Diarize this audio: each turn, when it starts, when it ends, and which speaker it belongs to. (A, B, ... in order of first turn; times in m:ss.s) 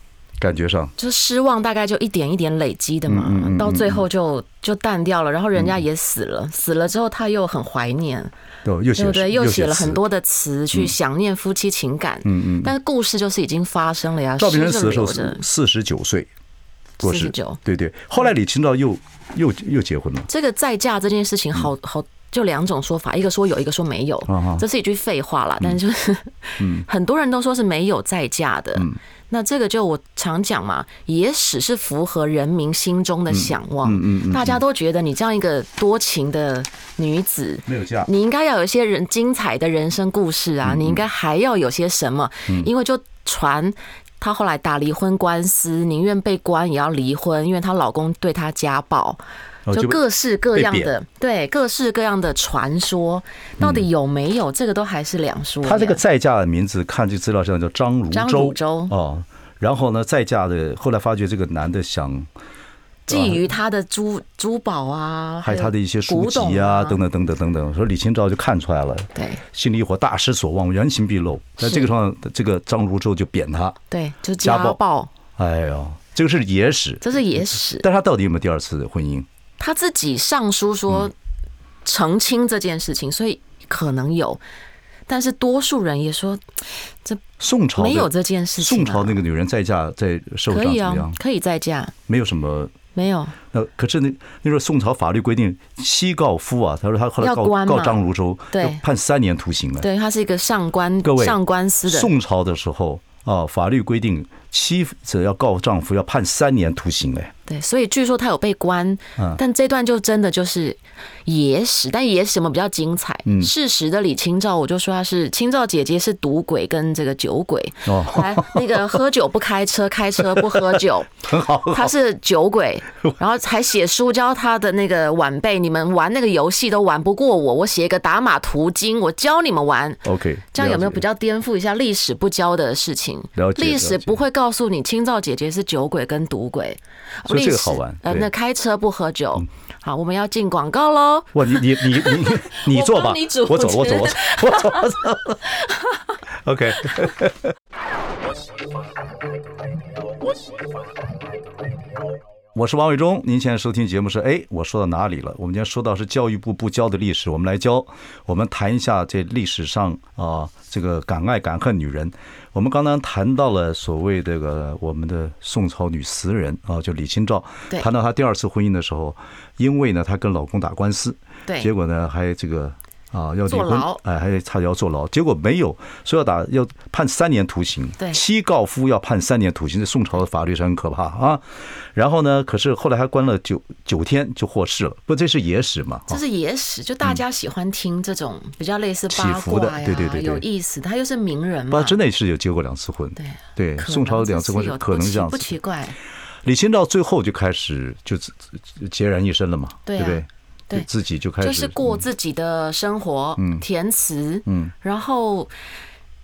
0:00.4-0:00.9 A
0:01.0-0:08.3 B
0:03.1-0:04.0 A
0:08.6-0:10.0 A
0:08.9-0:15.4 B
0:12.2-0:12.7 A
0:14.4-0:16.3 A
0:17.0-0:17.6 B
0:17.0-0:20.3 A
0:20.3-0:49.2 B
0:24.3-0:24.6 A
0:26.6-0:26.8 A
0:33.3-0:34.6 A
0:37.6-0:38.1 A
0:40.6-0:41.0 A
0:49.7-0:50.0 A
0:49.7-0:56.0 B
0:50.5-0:50.9 A
0:53.6-0:53.8 A
0:55.6-1:02.3 A
0:58.1-0:58.9 B
1:03.1-1:03.5 A
1:03.1-1:07.0 B
1:05.4-1:13.8 A
1:09.1-1:09.4 B
1:11.6-1:11.9 B
1:13.9-1:15.1 B
1:14.4-1:14.8 A
1:15.4-1:19.3 A
1:17.0-1:17.8 B
1:19.6-1:21.1 B
1:21.8-1:24.4 B
1:25.1-1:27.2 B
1:27.4-1:31.2 A
1:27.7-1:29.2 B
1:30.5-1:31.9 B
1:32.1-1:32.7 A
1:32.9-1:33.3 B
1:33.5-1:39.9 A
1:37.2-1:38.0 B
1:38.5-1:38.8 B
1:39.8-1:42.1 B
1:41.0-1:47.3 A
1:47.5-2:25.0 B
1:53.2-1:53.5 A
1:57.8-1:58.8 A
2:00.2-2:01.9 A
2:10.0-2:11.0 A
2:13.4-2:14.2 A
2:17.2-2:18.3 A
2:21.3-2:25.4 A
2:26.4-2:27.5 A
2:32.5-3:06.2 A
2:51.4-2:51.7 B
2:53.5-2:54.0 B
3:06.1-3:12.0 B
3:09.1-3:10.4 A
3:11.7-3:15.6 A
3:13.2-3:16.0 B
3:16.4-3:22.0 A
3:19.8-3:20.9 B
3:21.4-3:25.5 B
3:23.4-3:23.6 A
3:24.5-3:24.7 A